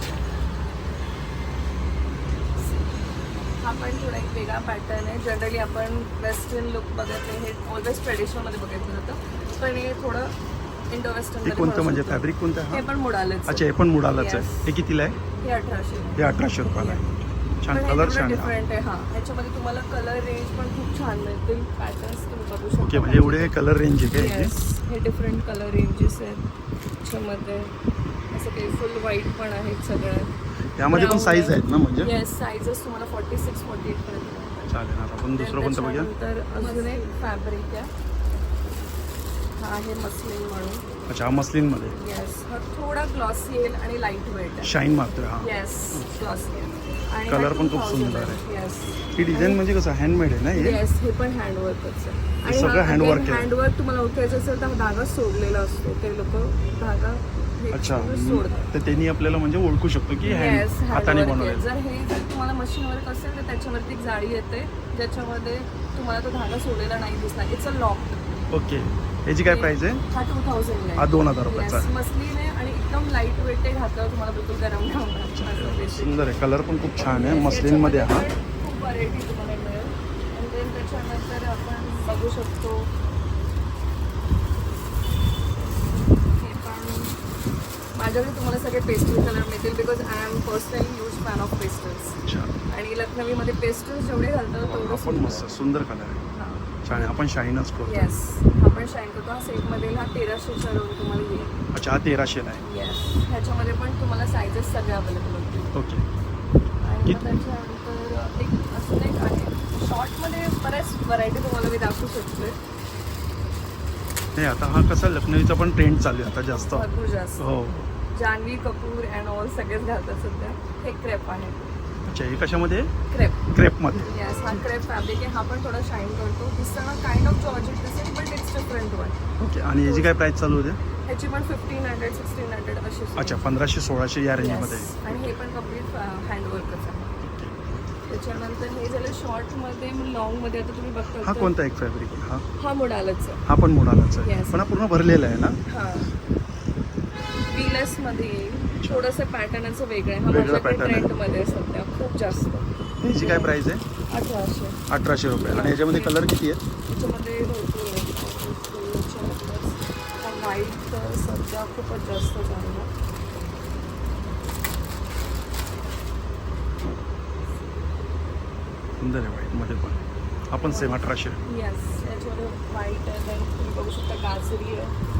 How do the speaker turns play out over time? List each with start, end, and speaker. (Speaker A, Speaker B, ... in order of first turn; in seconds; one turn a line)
Speaker A: 3.6-10.3
Speaker A: 10.9-14.7
Speaker B: 11.4-12.8
Speaker B: 13.5-15.2
Speaker A: 15.4-17.0
Speaker B: 16.1-18.5
Speaker A: 17.7-23.5
Speaker B: 22.8-24.5
Speaker A: 24.1-26.4
Speaker A: 27.0-27.7
Speaker A: 28.3-30.3
Speaker B: 30.8-32.1
Speaker A: 30.9-37.9
Speaker B: 34.7-36.1
Speaker A: 39.6-40.8
Speaker B: 41.1-42.0
Speaker A: 41.9-44.7
Speaker B: 44.6-46.1
Speaker A: 45.4-49.6
Speaker B: 47.3-48.4
Speaker B: 49.1-50.8
Speaker A: 50.5-58.7
Speaker B: 52.4-53.5
Speaker B: 57.7-61.6
Speaker A: 60.2-68.2
Speaker B: 68.5-70.0
Speaker A: 69.4-76.3
Speaker B: 71.0-71.8
Speaker B: 75.3-78.2
Speaker A: 77.0-82.9
Speaker A: 85.6-87.2
Speaker A: 87.9-92.2
Speaker B: 92.2-92.5
Speaker A: 92.7-95.6
Speaker B: 94.6-96.2
Speaker A: 96.3-97.2
Speaker B: 96.8-98.1
Speaker A: 97.8-101.5
Speaker B: 101.7-102.6
Speaker A: 102.6-105.7
Speaker B: 105.7-106.0
Speaker A: 106.8-112.6
Speaker B: 114.3-116.9
Speaker A: 116.5-117.5
Speaker B: 117.4-117.9
Speaker A: 118.1-121.7
Speaker B: 122.1-122.9
Speaker A: 123.1-123.4
Speaker B: 123.5-124.6
Speaker A: 124.0-129.2
Speaker B: 129.4-130.8
Speaker A: 129.8-130.1
Speaker A: 131.0-133.5
Speaker B: 133.2-135.3
Speaker A: 134.4-137.2
Speaker B: 137.2-137.8
Speaker A: 138.1-141.5
Speaker B: 141.2-142.4
Speaker A: 142.6-143.4
Speaker B: 143.5-145.6
Speaker A: 144.2-144.6
Speaker A: 145.7-146.1
Speaker A: 147.5-153.5
Speaker B: 148.8-149.1
Speaker B: 150.3-151.1
Speaker B: 153.0-153.8
Speaker A: 154.1-154.8
Speaker B: 154.9-156.6
Speaker A: 155.4-156.2
Speaker A: 156.9-162.9
Speaker B: 169.0-171.4
Speaker A: 170.6-174.9